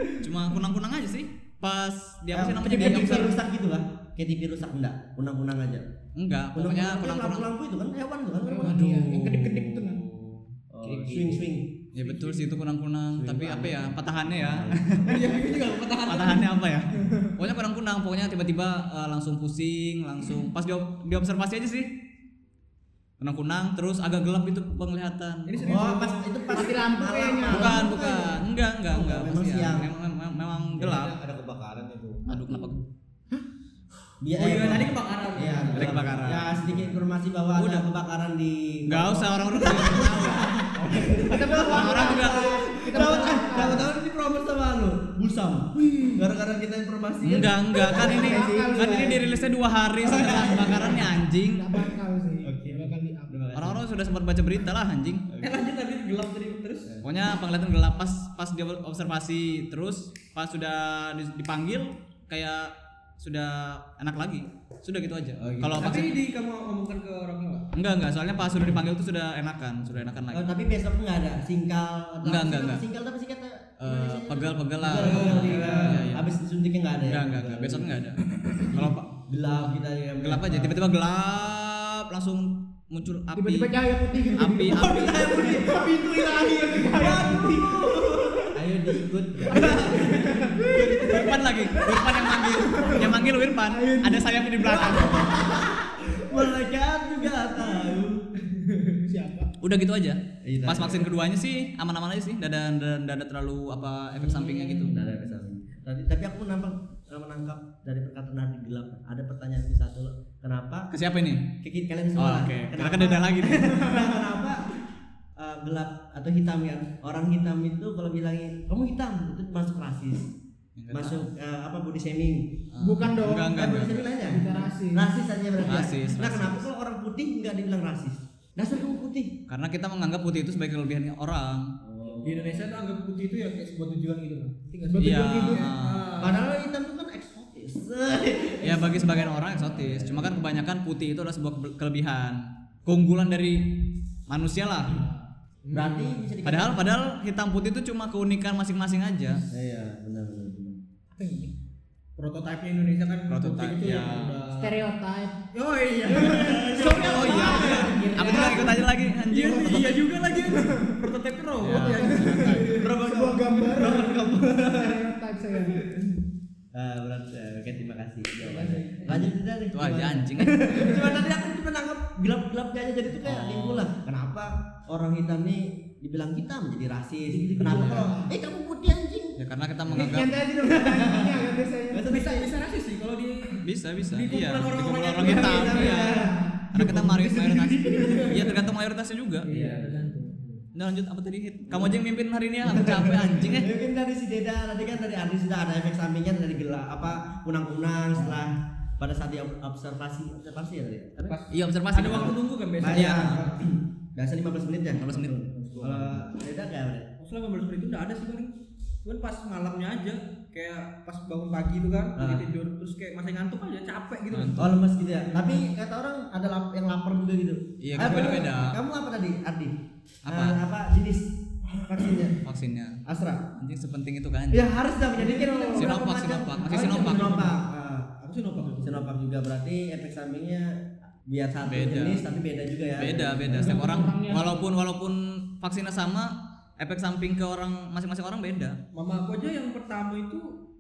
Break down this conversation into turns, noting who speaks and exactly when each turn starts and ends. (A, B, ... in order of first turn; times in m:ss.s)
0:00.2-0:03.4 A
0:02.3-0:05.8 B
0:02.6-0:03.3 C
0:06.2-0:07.5 A
0:06.6-0:08.9 B
0:08.4-0:10.0 C
0:08.6-0:10.4 A
0:10.7-0:11.7 B
0:10.8-0:11.4 D
0:11.9-0:15.1 A
0:13.1-0:15.3 B
0:15.0-0:16.5 E
0:16.0-0:21.9 A
0:17.0-0:17.3 C
0:23.2-0:25.6 A
0:25.4-0:26.6 E
0:25.6-0:29.9 B
0:26.5-0:28.0 C
0:27.5-0:31.1 A
0:30.8-0:32.2 D
0:32.3-0:32.7 C
0:32.3-0:32.8 A
0:34.2-0:49.3 B
0:34.3-0:36.0 E
0:35.7-0:36.5 A
0:36.2-0:37.0 D
0:37.6-0:37.8 A
0:38.9-0:40.7 A
0:40.9-0:41.6 D
0:41.0-0:43.9 C
0:41.6-0:42.8 A
0:47.2-0:51.6 A
0:47.8-0:49.4 C
0:50.0-0:51.0 B
0:50.1-0:53.5 C
0:52.4-0:53.8 B
0:53.6-0:55.2 A
0:55.4-0:56.9 E
0:57.0-1:06.1 A
1:05.4-1:06.0 B
1:05.8-1:07.7 E
1:07.7-1:10.5 A
1:10.3-1:18.0 B
1:12.2-1:12.8 A
1:13.8-1:16.3 A
1:14.9-1:16.0 E
1:17.0-1:18.2 A
1:18.7-1:19.1 A
1:18.7-1:20.8 B
1:20.2-1:23.7 A
1:23.3-1:28.6 C
1:24.3-1:25.5 A
1:24.6-1:31.4 B
1:29.5-1:35.7 C
1:29.6-1:30.8 E
1:30.8-1:35.4 A
1:34.6-1:38.2 B
1:38.8-1:39.5 C
1:39.6-1:45.0 A
1:40.4-1:41.1 B
1:44.3-1:50.9 B
1:44.4-1:44.9 E
1:50.9-1:51.4 A
1:51.6-1:54.7 B
1:52.2-1:53.9 A
1:55.4-2:00.3 B
2:00.8-2:01.3 A
2:00.9-2:02.5 B
2:02.7-2:04.0 A
2:02.8-2:03.6 C
2:03.5-2:09.3 B
2:04.2-2:05.1 C
2:05.6-2:06.6 A
2:09.5-2:11.7 A
2:11.8-2:12.7 B
2:12.2-2:16.5 E
2:14.8-2:15.7 C
2:15.0-2:16.1 A
2:16.2-2:20.4 B
2:18.6-2:23.7 A
2:24.3-2:25.0 A
2:24.9-2:25.2 C
2:25.6-2:26.2 E
2:25.7-2:26.8 B
2:26.4-2:29.4 A
2:29.5-2:30.8 B
2:31.1-2:31.6 C
2:32.2-2:34.8 E
2:33.3-2:34.3 A
2:34.5-2:35.4 C
2:35.5-2:42.9 E
2:36.1-2:38.9 C
2:36.3-2:38.0 B
2:36.8-2:40.1 A
2:40.5-2:41.1 C
2:41.6-2:42.7 A
2:41.7-2:45.9 C
2:42.7-2:45.0 B
2:46.7-2:59.4 B
2:48.4-2:49.3 C
2:49.7-2:50.9 A
2:50.7-2:51.2 C
2:53.2-2:53.9 A
2:57.3-2:58.4 C
2:59.4-3:00.4 A
2:59.9-3:02.5 B
2:59.9-3:02.3 C
3:02.0-3:06.0 E
3:03.6-3:09.5 A
3:05.2-3:08.6 B
3:06.0-3:06.7 C
3:07.8-3:08.6 E
3:09.4-3:10.4 E
3:09.5-3:10.2 B
3:10.7-3:13.7 A
3:11.7-3:12.0 B
3:12.6-3:21.4 B
3:21.2-3:23.6 E
3:21.5-3:23.4 A
3:22.8-3:27.1 B
3:24.9-3:25.3 A
3:25.6-3:26.1 E
3:25.8-3:26.2 D
3:27.2-3:35.6 E
3:32.2-3:32.4 B
3:34.3-3:34.6 A
3:34.6-3:39.7 B
3:37.8-3:38.8 A
3:38.0-3:38.5 E
3:40.3-3:40.6 A
3:40.3-3:41.3 B
3:41.8-3:42.4 B
3:42.4-3:43.0 A
3:43.0-3:43.4 B
3:43.6-3:44.7 A
3:44.5-3:48.2 B
3:45.1-3:46.0 C
3:45.7-3:47.5 A
3:46.7-3:47.6 E
3:48.2-3:49.1 E
3:48.8-3:53.8 B
3:51.6-3:52.2 A
3:53.0-3:58.8 A
3:53.5-3:54.6 C
3:58.9-4:00.5 E